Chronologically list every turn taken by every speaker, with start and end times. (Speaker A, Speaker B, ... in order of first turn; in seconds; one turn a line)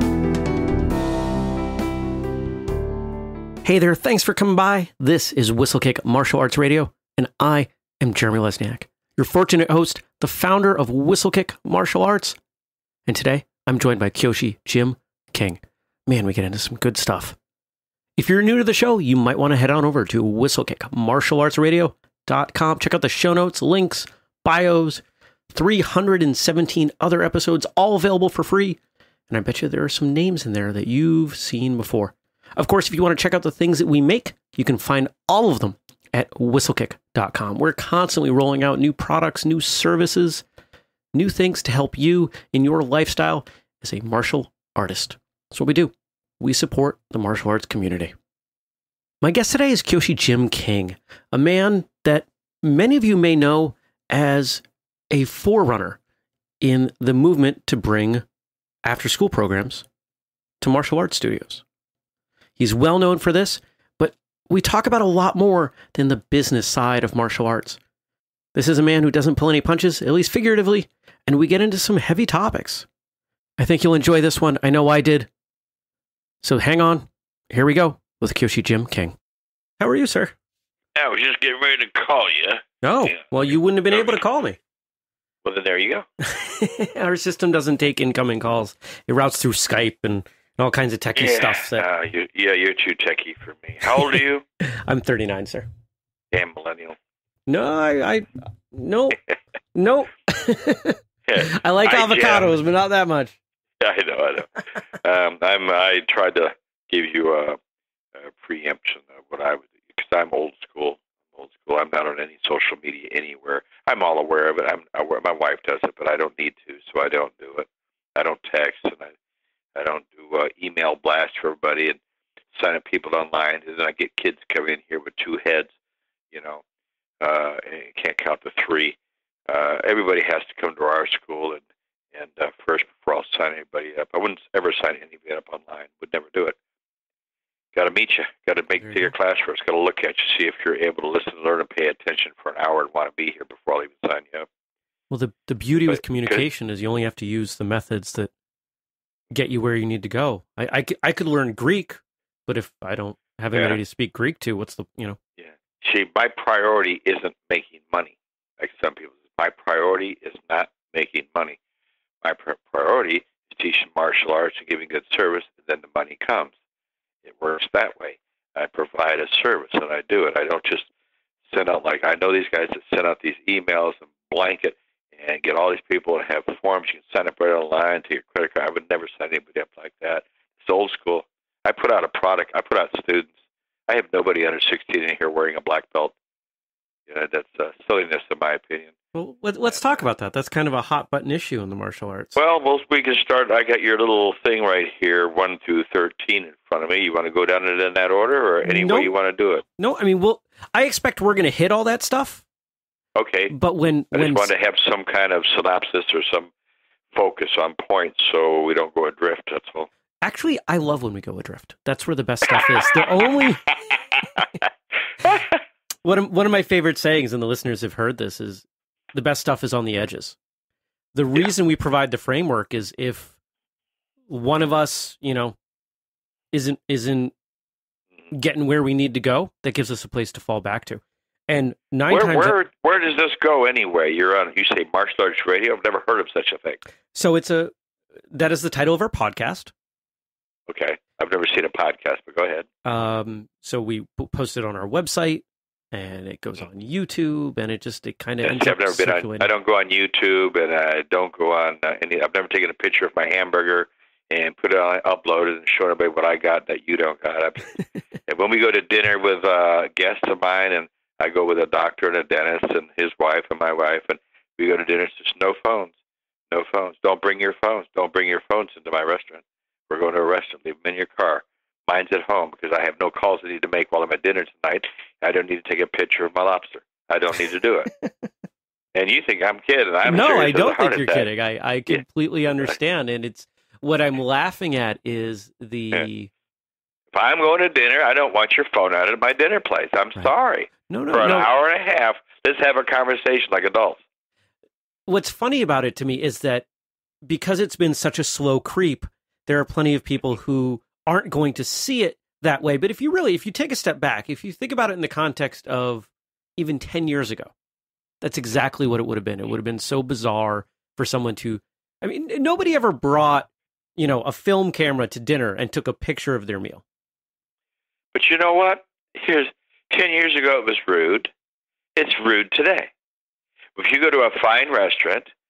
Speaker A: 3.6-12.4
Speaker A: 13.1-17.4
Speaker A: 18.2-40.4
Speaker A: 41.1-48.1
Speaker A: 49.2-56.0
Speaker A: 56.6-58.2
Speaker A: 58.8-59.9
Speaker A: 60.6-61.6
Speaker A: 62.6-67.8
Speaker A: 68.5-72.9
Speaker A: 73.6-75.3
Speaker A: 76.4-79.2
Speaker A: 79.8-80.3
Speaker B: 81.0-83.2
Speaker A: 82.8-84.6
Speaker B: 83.9-84.2
Speaker B: 85.4-86.0
Speaker A: 86.2-91.8
Speaker B: 91.2-94.4
Speaker A: 93.9-95.7
Speaker B: 96.3-97.0
Speaker A: 97.5-99.2
Speaker A: 99.7-103.4
Speaker B: 101.3-102.5
Speaker B: 103.8-107.6
Speaker B: 108.2-119.1
Speaker B: 119.8-122.0
Speaker B: 122.5-125.7
Speaker B: 126.3-126.6
Speaker B: 127.2-129.0
Speaker B: 129.5-131.6
Speaker B: 132.1-136.6
Speaker B: 137.7-144.5
Speaker A: 145.1-148.3
Speaker B: 145.9-146.4
Speaker A: 149.3-155.2
Speaker B: 155.4-161.6
Speaker B: 162.2-166.5
Speaker B: 167.2-170.9
Speaker B: 171.5-183.3
Speaker B: 183.9-186.2
Speaker B: 187.1-188.9
Speaker A: 189.1-192.4
Speaker B: 189.7-190.0
Speaker B: 192.4-199.6
Speaker A: 198.7-199.1
Speaker A: 199.8-202.4
Speaker B: 203.2-203.5
Speaker A: 203.5-204.5
Speaker B: 204.1-206.5
Speaker B: 207.1-209.9
Speaker A: 210.2-214.0
Speaker A: 216.0-220.4
Speaker A: 221.1-223.3
Speaker A: 224.3-225.6
Speaker A: 226.5-227.3
Speaker A: 228.3-232.6
Speaker B: 232.1-236.8
Speaker A: 237.1-237.7
Speaker A: 238.3-239.7
Speaker B: 240.7-242.7
Speaker A: 242.8-249.5
Speaker B: 248.4-265.9
Speaker B: 266.5-277.9
Speaker B: 278.9-281.3
Speaker A: 280.1-286.3
Speaker B: 287.1-294.0
Speaker A: 290.9-291.5
Speaker A: 295.1-296.7
Speaker A: 297.2-307.5
Speaker A: 308.2-316.8
Speaker B: 318.1-321.3
Speaker B: 322.0-322.9
Speaker B: 323.8-325.3